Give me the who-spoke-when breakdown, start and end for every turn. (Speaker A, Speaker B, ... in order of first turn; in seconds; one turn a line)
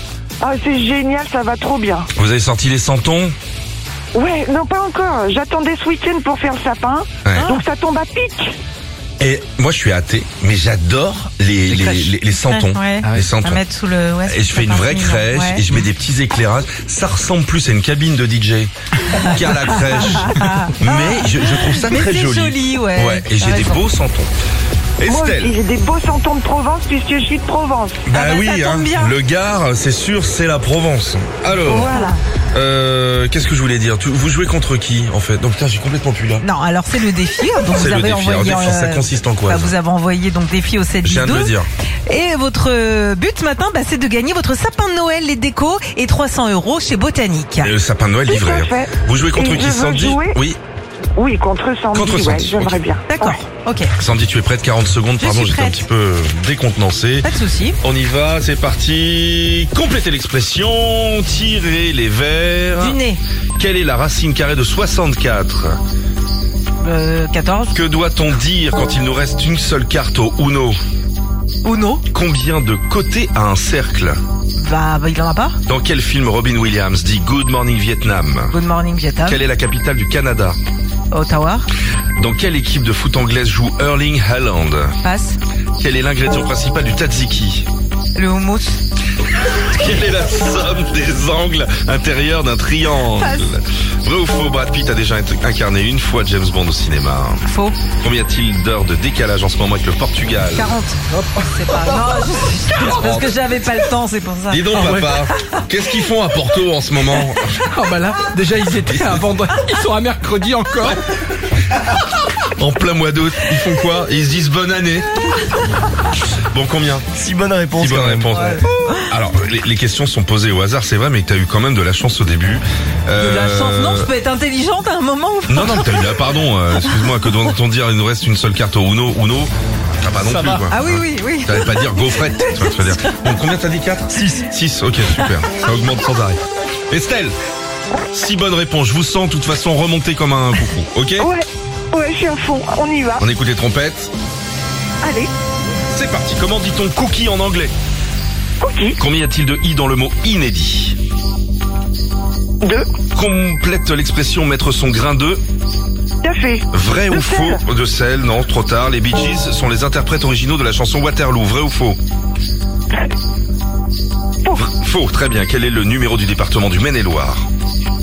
Speaker A: 0.4-2.1
Speaker B: 2.2-3.3
Speaker A: 4.1-8.5
Speaker B: 7.2-7.5
Speaker C: 7.3-7.6
Speaker B: 9.2-13.6
Speaker C: 12.3-15.7
Speaker B: 14.3-24.3
Speaker C: 19.1-23.9
Speaker B: 25.0-25.6
Speaker A: 25.1-28.0
Speaker B: 28.1-31.9
Speaker C: 28.1-29.2
Speaker C: 31.5-32.2
Speaker A: 31.7-32.2
Speaker B: 32.5-36.4
Speaker C: 36.4-47.7
Speaker B: 37.8-39.8
Speaker B: 41.0-41.7
Speaker B: 47.6-50.6
Speaker A: 48.3-50.4
Speaker A: 51.2-53.4
Speaker B: 51.9-52.8
Speaker C: 53.1-53.9
Speaker B: 54.0-57.3
Speaker C: 55.2-55.9
Speaker C: 57.2-57.8
Speaker B: 57.8-63.0
Speaker C: 62.8-63.2
Speaker B: 63.6-65.8
Speaker C: 66.8-67.8
Speaker B: 67.7-70.8
Speaker C: 71.6-72.0
Speaker B: 72.1-74.2
Speaker C: 74.6-75.6
Speaker B: 75.7-78.5
Speaker C: 78.5-79.4
Speaker B: 79.2-80.6
Speaker C: 81.1-81.7
Speaker B: 82.2-84.9
Speaker C: 85.0-85.4
Speaker B: 85.8-87.7
Speaker C: 88.2-88.8
Speaker B: 89.7-97.4
Speaker C: 93.1-93.5
Speaker C: 97.5-97.8
Speaker B: 98.0-100.8
Speaker C: 100.5-105.6
Speaker B: 102.8-103.5
Speaker B: 104.5-107.6
Speaker D: 104.8-105.1
Speaker D: 107.6-111.0
Speaker B: 108.9-109.2
Speaker B: 112.6-115.3
Speaker B: 116.5-117.1
Speaker E: 117.1-118.6
Speaker B: 117.8-124.1
Speaker C: 118.3-118.6
Speaker C: 123.2-126.2
Speaker B: 125.5-129.5
Speaker C: 126.8-127.1
Speaker B: 130.0-137.3
Speaker E: 130.2-130.7
Speaker C: 130.7-133.1
Speaker E: 134.1-134.5
Speaker B: 138.1-141.3
Speaker A: 141.2-143.3
Speaker B: 143.2-144.1
Speaker A: 145.0-145.3
Speaker B: 145.9-147.7
Speaker A: 148.6-149.0
Speaker B: 149.0-151.0
Speaker B: 153.2-155.4
Speaker A: 156.2-157.6
Speaker B: 156.7-162.0
Speaker B: 164.6-167.5